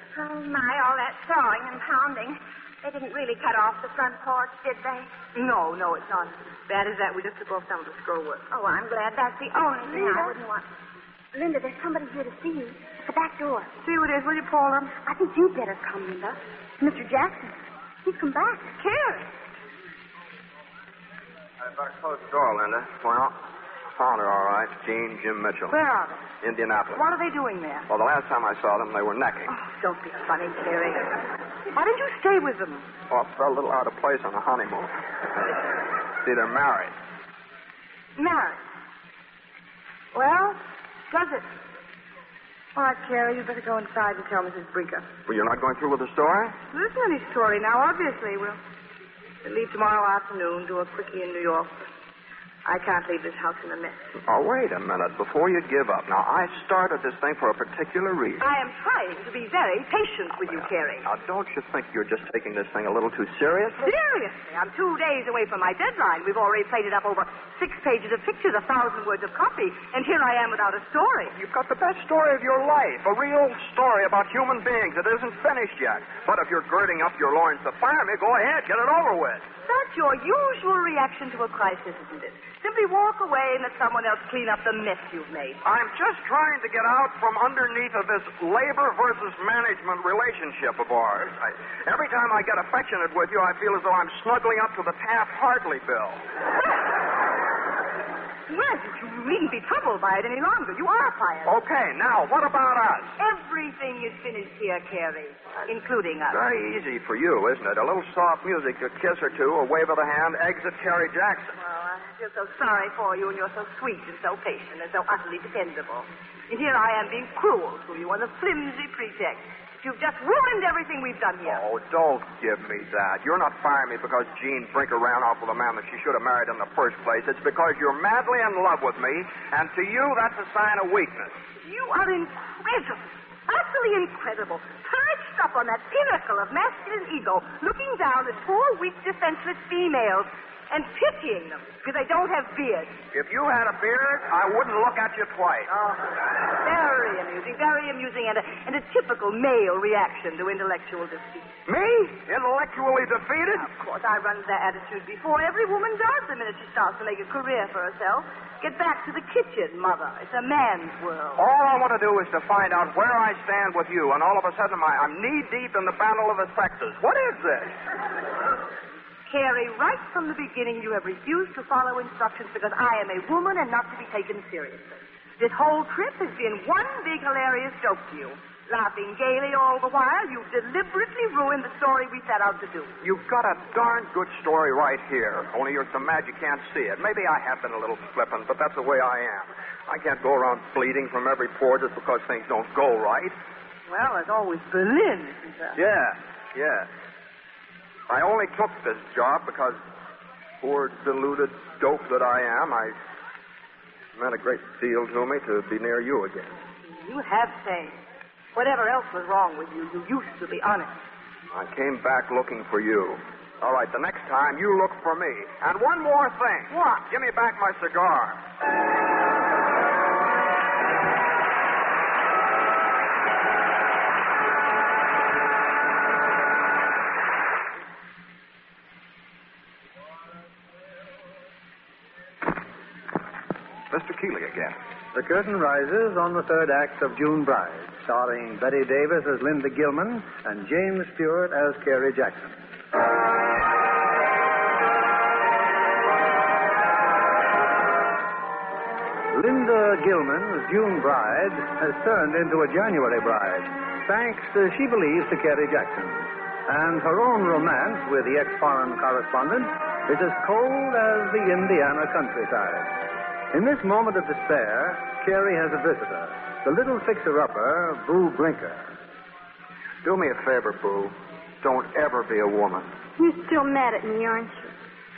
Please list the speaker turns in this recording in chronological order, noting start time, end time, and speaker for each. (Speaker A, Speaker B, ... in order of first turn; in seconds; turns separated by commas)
Speaker A: 0.1-5.1, Speaker B: 5.3-8.4, Speaker A: 8.5-10.6, Speaker C: 9.9-10.3, Speaker C: 11.3-12.8, Speaker B: 13.8-14.9, Speaker C: 15.0-17.5, Speaker C: 18.1-18.6, Speaker B: 18.8-19.3, Speaker D: 21.6-23.4, Speaker D: 23.9-25.8, Speaker B: 25.7-26.2, Speaker D: 26.4-27.0, Speaker B: 26.9-27.9, Speaker D: 27.9-29.5, Speaker B: 29.5-31.1, Speaker B: 31.7-32.9, Speaker D: 33.1-35.6, Speaker D: 36.2-36.9, Speaker B: 38.1-38.6, Speaker B: 40.1-40.6, Speaker B: 41.1-41.5, Speaker B: 42.7-45.0, Speaker D: 45.2-46.5, Speaker B: 46.7-48.6, Speaker B: 49.4-51.8, Speaker B: 52.6-54.0, Speaker D: 54.2-58.5, Speaker B: 58.4-61.0, Speaker D: 60.5-64.0, Speaker B: 63.8-71.3, Speaker D: 71.3-79.4, Speaker B: 79.7-85.6, Speaker D: 85.6-96.2, Speaker B: 98.5-101.5, Speaker D: 101.4-103.2, Speaker B: 103.2-106.4, Speaker D: 106.3-111.5, Speaker B: 111.6-121.6, Speaker D: 121.4-131.4, Speaker B: 131.6-143.0, Speaker D: 143.1-145.7, Speaker B: 145.7-151.5, Speaker D: 151.7-153.7, Speaker B: 153.6-161.4, Speaker D: 161.3-167.7, Speaker B: 169.3-182.9, Speaker D: 183.0-193.3, Speaker B: 193.9-195.8, Speaker D: 195.8-196.9, Speaker D: 198.1-199.8, Speaker D: 200.6-202.9, Speaker D: 204.1-206.6, Speaker B: 206.9-208.0, Speaker B: 208.5-211.0, Speaker D: 211.5-218.4, Speaker B: 216.7-217.0, Speaker E: 235.1-242.6, Speaker E: 249.3-262.9, Speaker E: 263.5-268.9, Speaker D: 270.0-272.9, Speaker C: 273.2-274.7